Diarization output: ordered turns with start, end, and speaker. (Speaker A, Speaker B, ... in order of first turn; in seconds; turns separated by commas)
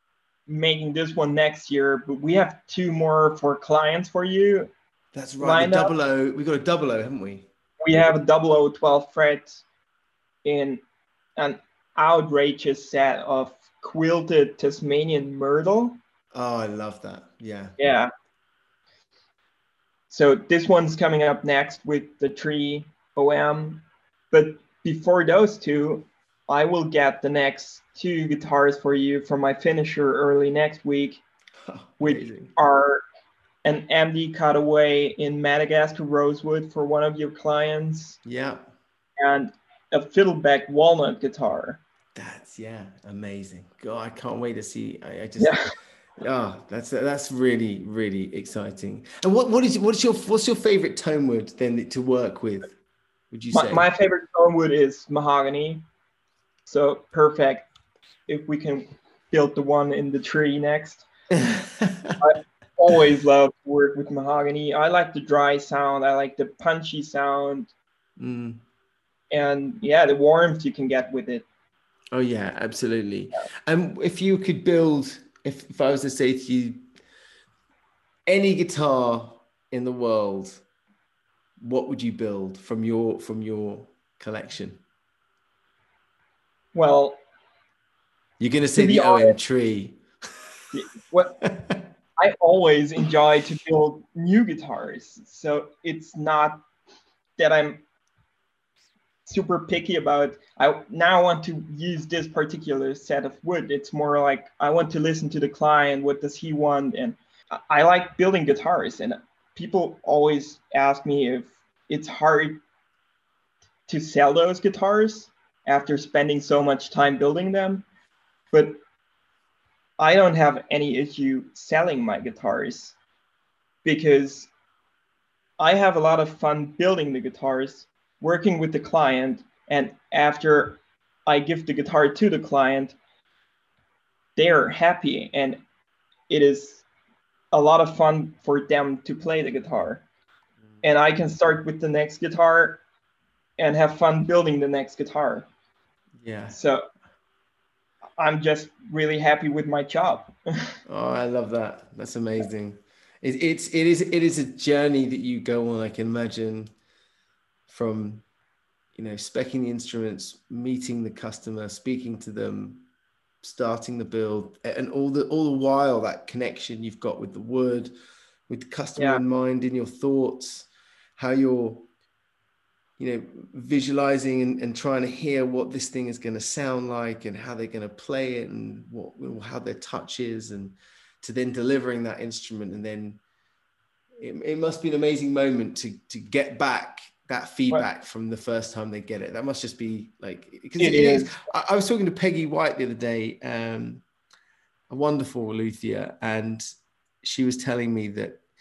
Speaker A: 0.5-4.7, Speaker B: 5.1-7.5, Speaker A: 5.4-5.9, Speaker A: 7.8-9.6, Speaker A: 10.4-10.8, Speaker A: 11.4-16.0, Speaker B: 16.3-17.8, Speaker A: 17.8-18.1, Speaker A: 20.1-31.2, Speaker B: 31.7-32.5, Speaker A: 32.0-33.0, Speaker A: 33.6-38.2, Speaker B: 38.2-38.7, Speaker A: 39.2-41.8, Speaker B: 42.1-45.6, Speaker A: 45.4-45.7, Speaker B: 46.2-52.8, Speaker B: 53.3-53.9, Speaker A: 53.5-55.8, Speaker A: 56.7-57.7, Speaker A: 58.3-61.1, Speaker B: 61.3-62.2, Speaker A: 62.2-67.7, Speaker B: 68.2-68.6, Speaker A: 69.3-71.5, Speaker B: 72.1-76.8, Speaker B: 78.3-80.6, Speaker B: 81.6-84.8, Speaker A: 86.8-87.2, Speaker B: 88.4-90.0, Speaker A: 88.8-89.4, Speaker A: 90.7-91.4, Speaker B: 91.4-91.8, Speaker A: 92.2-96.7, Speaker A: 97.4-97.8, Speaker A: 99.3-112.6, Speaker A: 113.9-117.8, Speaker A: 118.5-118.8, Speaker A: 120.0-123.0, Speaker A: 123.8-124.5, Speaker A: 125.6-133.0, Speaker A: 134.4-135.6, Speaker A: 136.3-136.8, Speaker A: 137.5-140.0, Speaker A: 140.8-142.8, Speaker A: 143.6-145.5, Speaker B: 146.2-146.6, Speaker A: 146.5-146.9, Speaker A: 148.2-150.7, Speaker B: 150.9-156.7, Speaker B: 157.7-158.2, Speaker B: 158.9-162.8, Speaker B: 163.4-167.9, Speaker B: 168.5-171.9, Speaker A: 169.0-169.2, Speaker B: 173.0-183.2, Speaker B: 184.2-194.0, Speaker A: 190.8-191.3, Speaker B: 194.9-196.6, Speaker B: 197.2-198.4